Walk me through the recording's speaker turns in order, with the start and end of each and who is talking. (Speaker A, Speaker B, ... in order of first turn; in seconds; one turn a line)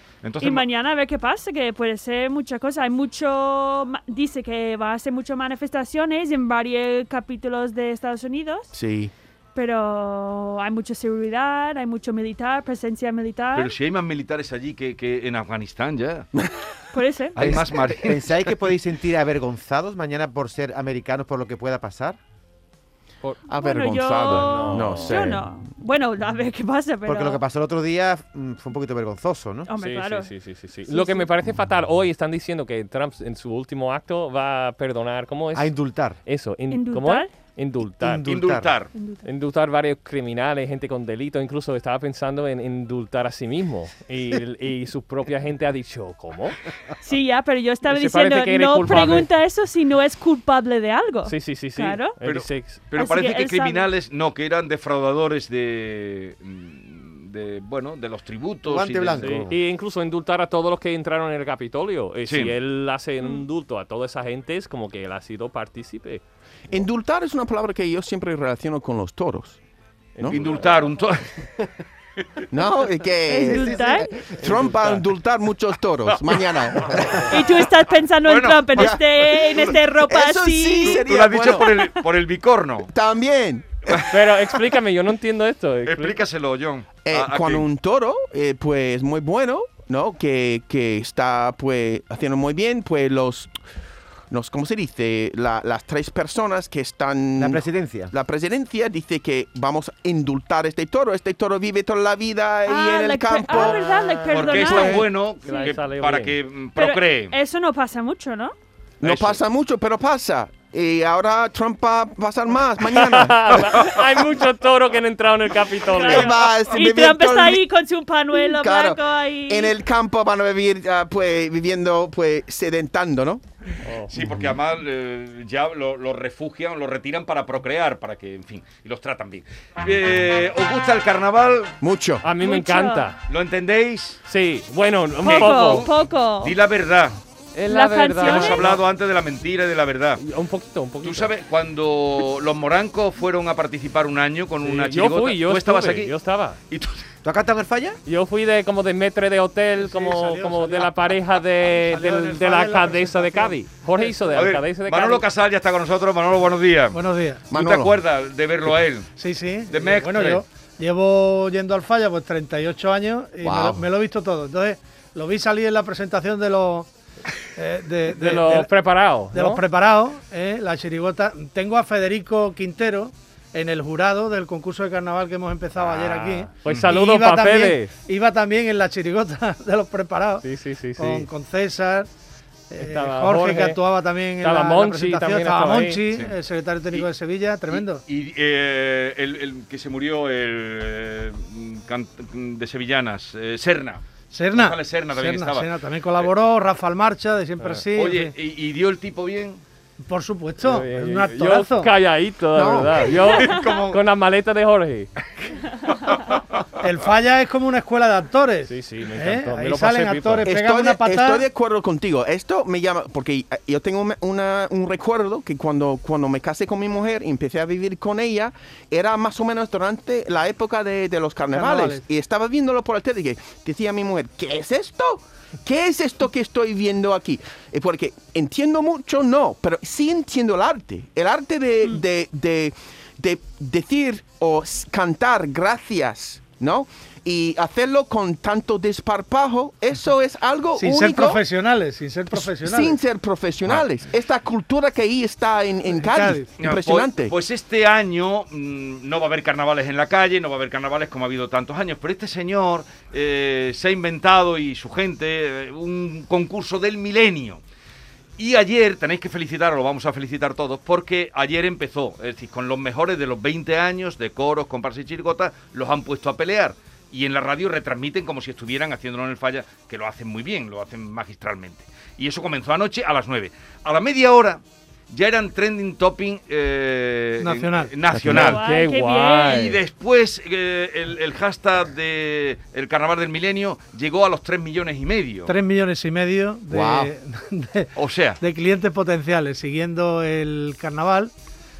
Speaker A: 0.2-0.7
Speaker B: 0.4-8.7
Speaker C: 8.7-9.1
Speaker B: 9.6-13.7
Speaker A: 13.6-16.3
Speaker B: 16.9-17.4
Speaker A: 17.4-18.4
Speaker C: 17.4-17.7
Speaker D: 17.4-22.2
Speaker C: 23.5-25.5
Speaker B: 23.5-27.4
Speaker E: 24.3-25.2
Speaker D: 27.1-29.7
Speaker B: 29.7-30.3
Speaker E: 29.8-38.3
Speaker B: 30.9-31.3
Speaker D: 35.5-36.2
Speaker B: 36.7-37.3
Speaker D: 38.0-38.8
Speaker A: 38.2-38.9
Speaker B: 38.9-39.2
Speaker E: 39.2-46.6
Speaker B: 47.0-52.2
Speaker E: 47.9-49.3
Speaker E: 51.3-52.8
Speaker A: 52.2-59.4
Speaker B: 53.0-53.9
Speaker D: 58.7-59.6
Speaker E: 59.2-66.2
Speaker A: 62.3-62.5
Speaker C: 66.7-69.6
Speaker E: 70.2-70.7
Speaker A: 70.3-71.3
Speaker C: 72.5-77.4
Speaker B: 73.3-74.3
Speaker E: 74.4-75.0
Speaker A: 76.1-76.3
Speaker B: 77.3-81.0
Speaker A: 78.3-79.0
Speaker C: 78.8-81.9
Speaker A: 80.8-82.9
Speaker C: 82.9-84.0
Speaker E: 84.1-86.2
Speaker A: 85.9-87.7
Speaker C: 87.0-93.5
Speaker C: 94.3-103.8
Speaker D: 97.4-98.1
Speaker B: 102.7-105.6
Speaker E: 103.6-106.3
Speaker A: 104.3-107.3
Speaker B: 106.8-108.5
Speaker C: 109.0-113.8
Speaker A: 109.0-109.4
Speaker E: 112.9-116.4
Speaker B: 115.9-119.7
Speaker C: 116.0-117.6
Speaker C: 118.3-123.4
Speaker E: 123.8-124.1
Speaker A: 124.1-131.8
Speaker C: 131.8-132.2
Speaker E: 132.2-133.2
Speaker B: 132.4-133.1
Speaker A: 133.3-134.2
Speaker E: 134.3-135.9
Speaker B: 135.2-136.6
Speaker A: 135.2-137.2
Speaker E: 137.6-138.8
Speaker B: 137.7-138.8
Speaker A: 138.2-140.2
Speaker E: 140.2-141.3
Speaker A: 141.0-146.1
Speaker E: 144.6-146.6
Speaker A: 146.7-147.1
Speaker D: 147.2-148.0
Speaker E: 148.1-155.2
Speaker F: 149.8-150.9
Speaker F: 151.7-154.3
Speaker A: 154.3-157.0
Speaker F: 156.9-157.4
Speaker C: 157.5-158.0
Speaker A: 157.5-159.1
Speaker F: 159.2-166.9
Speaker A: 159.7-160.4
Speaker C: 163.4-163.8
Speaker F: 167.6-168.7
Speaker E: 168.1-169.6
Speaker F: 169.3-180.5
Speaker E: 175.8-177.9
Speaker E: 180.4-181.3
Speaker F: 181.0-182.1
Speaker F: 182.7-188.0
Speaker E: 182.8-183.8
Speaker E: 184.4-186.0
Speaker A: 187.7-196.3
Speaker F: 194.3-198.3
Speaker A: 197.9-199.6
Speaker F: 200.1-201.9
Speaker E: 200.6-205.1
Speaker C: 202.5-203.1
Speaker A: 203.1-204.0
Speaker B: 203.3-203.8
Speaker A: 205.9-206.4
Speaker F: 206.8-211.4
Speaker E: 208.7-210.5
Speaker C: 210.4-241.4
Speaker F: 221.5-222.1
Speaker F: 240.8-243.0
Speaker C: 242.3-247.3
Speaker F: 245.9-246.5
Speaker A: 246.6-257.6
Speaker A: 258.4-278.6
Speaker F: 277.4-277.9
Speaker C: 278.1-278.6
Speaker B: 278.4-279.6
Speaker E: 278.4-279.8
Speaker A: 279.5-285.5
Speaker F: 285.5-291.3
Speaker C: 286.7-287.1
Speaker A: 288.0-288.4